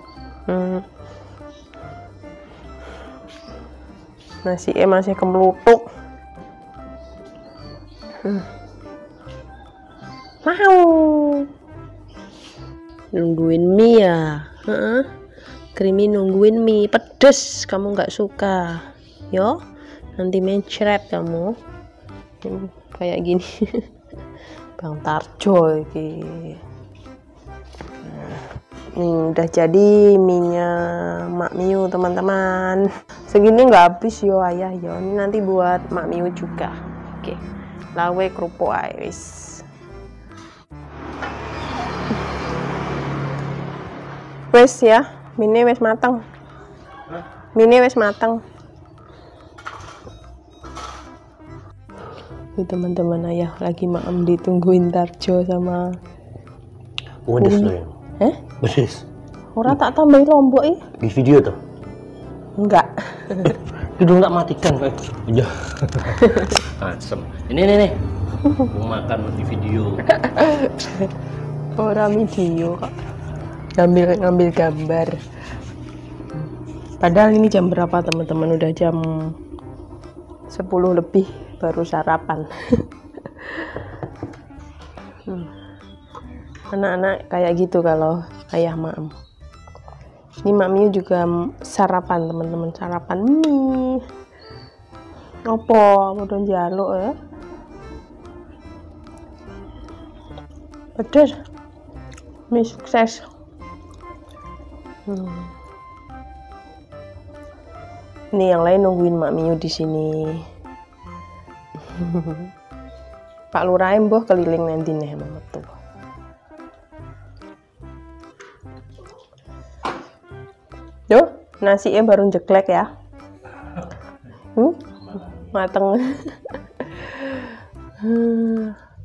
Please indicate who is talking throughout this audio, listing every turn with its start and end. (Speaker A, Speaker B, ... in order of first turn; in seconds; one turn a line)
Speaker A: 0.5-0.8
Speaker A: 4.4-5.8
Speaker A: 8.2-8.5
Speaker A: 10.4-11.5
Speaker A: 13.1-15.1
Speaker A: 15.8-19.6
Speaker A: 20.1-21.5
Speaker A: 22.4-23.9
Speaker A: 24.8-26.6
Speaker A: 28.0-37.4
Speaker A: 38.0-39.6
Speaker A: 44.5-46.2
Speaker A: 47.5-48.4
Speaker A: 52.5-55.9
Speaker B: 57.2-58.0
Speaker A: 57.4-58.4
Speaker B: 58.6-59.0
Speaker A: 59.5-60.9
Speaker B: 61.0-61.6
Speaker A: 62.6-63.6
Speaker B: 63.7-70.1
Speaker A: 66.1-66.6
Speaker A: 70.1-71.1
Speaker A: 71.8-72.9
Speaker A: 73.8-75.2
Speaker A: 76.3-79.3
Speaker A: 80.5-83.8
Speaker A: 85.2-85.5
Speaker A: 86.7-89.1
Speaker A: 90.4-94.0
Speaker A: 95.5-97.1
Speaker A: 101.0-101.3
Speaker A: 102.5-103.3
Speaker A: 105.1-105.5
Speaker A: 108.3-110.4
Speaker A: 111.8-112.5
Speaker A: 113.5-115.7
Speaker A: 121.1-122.9
Speaker A: 124.5-128.8